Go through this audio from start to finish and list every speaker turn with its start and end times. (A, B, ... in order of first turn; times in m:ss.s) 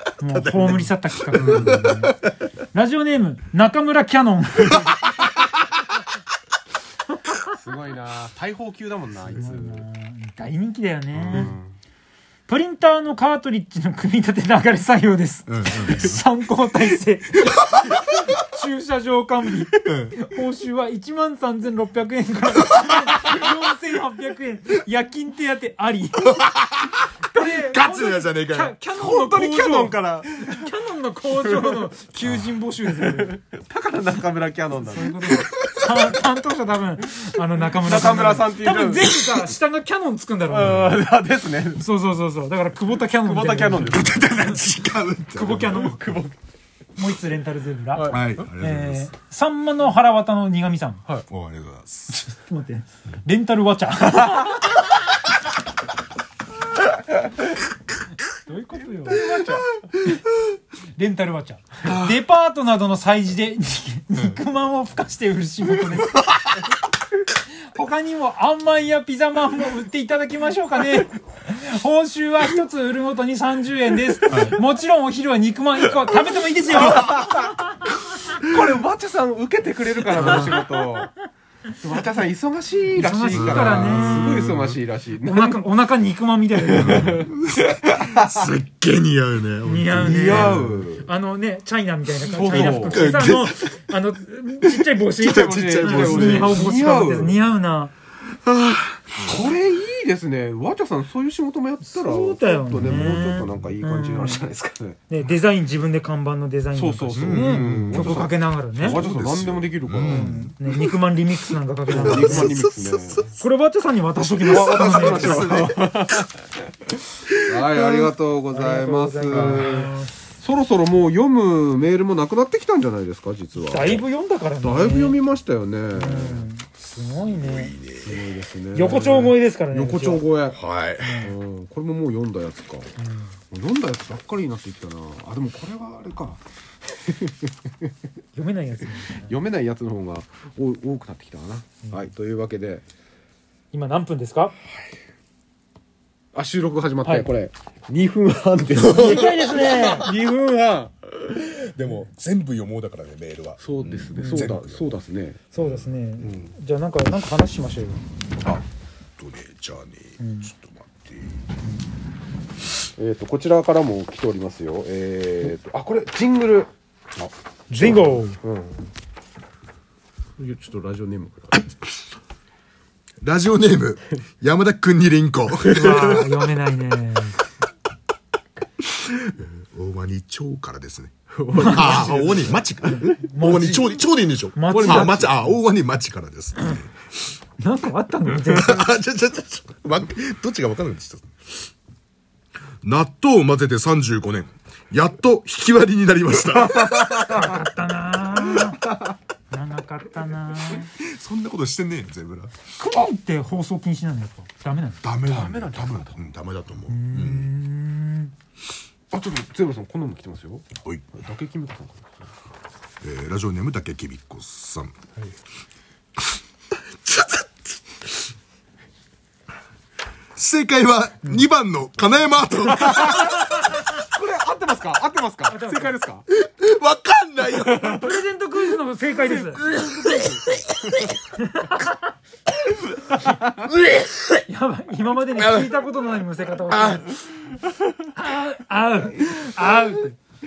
0:00.2-0:05.0 A
0:00.4-0:00.8 B
0:01.4-0:02.1 B
0:01.4-0:01.8 C
0:07.5-0:09.9 C
0:09.3-0:11.5 A
0:11.2-0:11.8 C
0:12.5-0:26.5 A
0:15.5-0:16.2 B
0:17.4-0:18.3 B
0:19.8-0:20.2 B
0:22.8-0:23.3 B
0:26.2-0:28.8 B
0:27.3-0:33.4 A
0:29.0-0:30.7 C
0:31.3-0:31.9 C
0:33.0-0:35.5 C
0:34.8-0:41.0 A
0:35.3-0:36.0 B
0:37.6-0:39.4 C
0:40.5-0:41.8 C
0:41.8-0:44.4 A
0:43.0-0:44.6 C
0:43.9-0:45.8 B
0:45.3-0:46.1 A
0:45.5-0:46.4 C
0:47.0-0:51.0 A
0:48.0-0:48.3 C
0:48.1-0:49.1 B
0:51.3-0:52.2 B
0:52.1-0:55.0 A
0:58.3-0:59.3 A
0:59.1-0:59.7 C
1:01.0-1:06.3 A
1:07.7-1:17.5 A
1:14.3-1:14.6 B
1:16.9-1:17.5 C
1:18.3-1:21.1 C
1:20.2-1:20.6 B
1:20.2-1:20.6 A
1:21.8-1:25.7 C
1:22.9-1:24.5 A
1:23.3-1:24.8 B
1:25.2-1:27.3 A
1:26.7-1:28.5 C
1:26.8-1:30.9 B
1:29.6-1:37.9 A
1:30.0-1:31.1 C
1:32.2-1:33.3 C
1:32.5-1:33.8 B
1:34.7-1:36.7 B
1:35.2-1:37.4 C
1:38.5-1:39.3 B
1:39.2-1:45.0 C
1:41.8-1:44.4 A
1:45.1-1:49.0 A
1:46.7-1:50.4 C
1:47.2-1:50.9 B
1:50.0-1:52.5 A
1:51.9-1:53.3 C
1:51.9-1:53.2 B
1:53.4-1:55.6 A
1:54.5-1:56.3 C
1:54.5-1:56.0 B
1:57.4-2:04.0 C
1:58.5-2:00.1 A
1:59.3-1:59.7 B
2:03.6-2:05.2 A
2:04.6-2:06.5 C
2:06.0-2:07.8 A
2:07.3-2:08.2 B
2:08.0-2:10.6 C
2:08.7-2:10.2 A
2:10.5-2:11.3 B
2:11.0-2:11.3 A
2:11.2-2:12.9 C
2:13.0-2:13.3 A
2:13.5-2:17.9 C
2:18.4-2:19.4 A
2:19.2-2:22.8 C
2:23.7-2:24.6 A
2:26.3-2:31.5 C
2:27.0-2:27.3 A
2:28.8-2:30.1 A
2:29.0-2:29.3 B
2:31.6-2:35.0 B
2:33.6-2:35.4 C
2:34.2-2:34.5 A
2:35.5-2:38.0 A
2:35.6-2:36.5 B
2:39.2-2:41.4 B
2:40.2-2:40.5 A
2:43.0-2:46.7 C
2:47.7-2:48.4 A
2:47.8-2:48.9 C
2:50.4-2:51.7 C
2:53.2-2:56.4 B
2:55.7-2:57.4 A
2:55.8-2:56.2 C
2:58.9-3:06.8 B
3:01.4-3:03.0 C
3:01.6-3:02.0 A
3:02.9-3:04.0 A
3:04.5-3:05.4 A
3:04.7-3:05.4 C
3:07.6-3:08.9 A
3:08.4-3:11.3 B
3:12.8-3:17.3 B
3:16.8-3:17.1 C
3:17.1-3:18.8 A
3:19.5-3:20.9 A
3:20.8-3:22.5 B
3:22.8-3:25.0 A
3:25.0-3:27.5 B
3:25.3-3:26.2 C
3:26.9-3:28.3 A
3:29.1-3:32.3 C
3:30.8-3:31.1 B
3:33.0-3:35.1 B
3:37.0-3:37.5 B
3:40.4-3:43.5 B
3:42.7-3:46.2 C
3:45.5-3:46.0 A
3:46.3-3:48.1 B
3:47.5-3:48.0 C
3:47.8-3:49.7 A
3:49.5-3:50.3 B
3:50.0-3:50.4 C
3:51.2-3:52.1 A
3:53.7-3:54.4 B
3:54.5-3:57.6 A
3:55.4-3:55.7 B
3:56.7-3:57.0 B
3:58.1-4:00.2 A